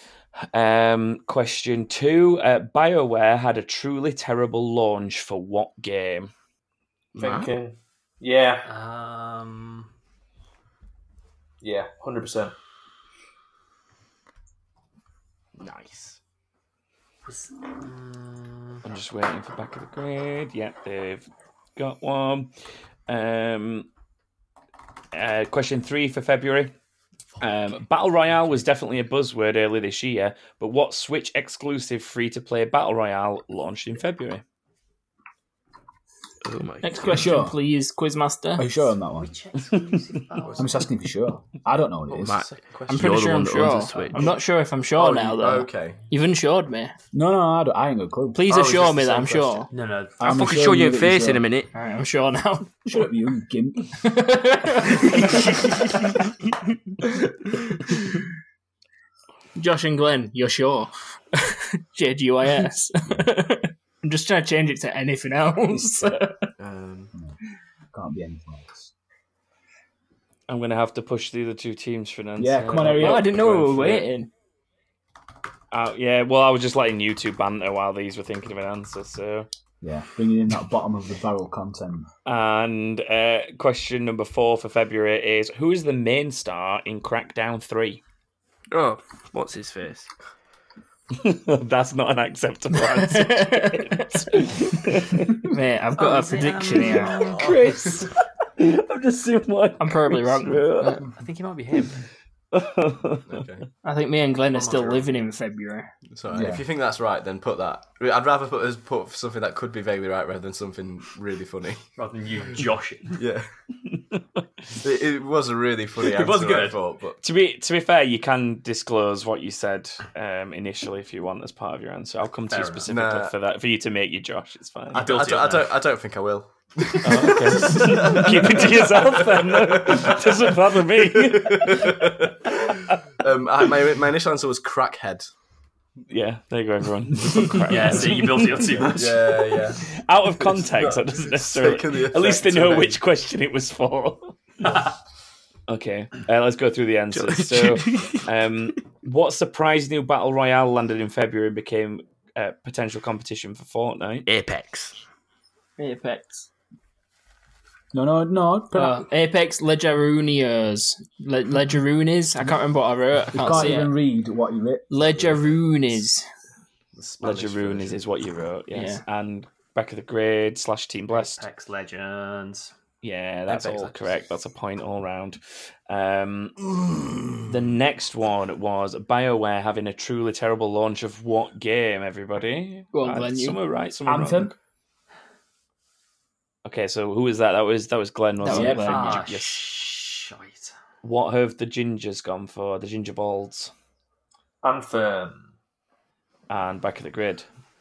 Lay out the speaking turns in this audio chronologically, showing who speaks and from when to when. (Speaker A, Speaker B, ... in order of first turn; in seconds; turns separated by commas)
Speaker A: 0.5-6.3, Speaker B: 7.1-7.5, Speaker C: 7.2-8.6, Speaker D: 8.6-9.9, Speaker C: 11.6-12.5, Speaker B: 15.6-16.2, Speaker D: 17.2-18.8, Speaker A: 18.8-22.5, Speaker A: 23.1-23.9, Speaker A: 25.1-26.7, Speaker A: 27.4-34.4, Speaker B: 36.4-37.4, Speaker E: 36.8-38.7, Speaker F: 37.0-37.6, Speaker F: 38.6-39.3, Speaker D: 39.2-40.8, Speaker F: 40.6-42.4, Speaker G: 42.1-43.1, Speaker B: 42.2-44.3, Speaker E: 42.9-46.9, Speaker G: 45.0-46.0, Speaker F: 47.1-48.4, Speaker E: 48.3-49.7, Speaker G: 48.5-49.6, Speaker D: 49.7-50.2, Speaker F: 50.2-51.4, Speaker B: 50.2-51.7, Speaker E: 51.7-52.7, Speaker F: 52.8-53.9, Speaker E: 54.0-55.7, Speaker E: 59.6-66.4, Speaker F: 65.7-66.2, Speaker G: 66.6-67.1, Speaker F: 67.9-68.9, Speaker A: 70.5-74.0, Speaker F: 72.4-73.5, Speaker E: 72.9-74.3, Speaker A: 75.7-79.5, Speaker F: 79.8-82.1, Speaker A: 82.2-88.0, Speaker B: 88.7-90.1, Speaker A: 91.1-95.5, Speaker E: 92.9-94.1, Speaker E: 95.4-97.2, Speaker D: 96.0-97.5, Speaker A: 97.1-101.0, Speaker G: 97.1-97.8, Speaker E: 99.8-101.0, Speaker D: 101.2-102.0, Speaker A: 102.5-103.3, Speaker G: 103.3-103.6, Speaker E: 103.8-105.9, Speaker D: 104.5-105.0, Speaker G: 106.1-111.8, Speaker F: 106.3-106.6, Speaker D: 112.0-113.1, Speaker G: 113.1-113.5, Speaker G: 114.8-117.2, Speaker D: 116.0-116.8, Speaker A: 117.2-125.1, Speaker D: 122.5-122.8, Speaker G: 122.9-123.3, Speaker G: 124.9-135.3, Speaker D: 124.9-125.7, Speaker A: 127.0-132.2, Speaker A: 136.1-138.9, Speaker D: 137.7-139.3, Speaker G: 138.8-143.0, Speaker A: 139.8-144.3, Speaker D: 144.6-144.9, Speaker A: 145.7-154.2, Speaker B: 147.1-148.2, Speaker B: 154.2-154.9, Speaker E: 155.8-156.5, Speaker F: 157.9-159.1, Speaker E: 158.7-163.9, Speaker F: 163.3-164.9, Speaker E: 164.9-166.2, Speaker G: 166.9-168.4, Speaker A: 167.2-171.4, Speaker E: 168.7-169.0, Speaker D: 171.1-172.7, Speaker A: 173.0-176.6, Speaker G: 173.5-174.2, Speaker G: 176.8-177.4, Speaker A: 177.5-184.5, Speaker E: 182.9-183.6, Speaker F: 184.1-184.5, Speaker A: 186.6-189.7, Speaker E: 188.4-189.2, Speaker F: 188.5-188.9, Speaker D: 188.7-190.7, Speaker A: 191.0-193.7, Speaker C: 194.6-195.5, Speaker A: 196.5-197.4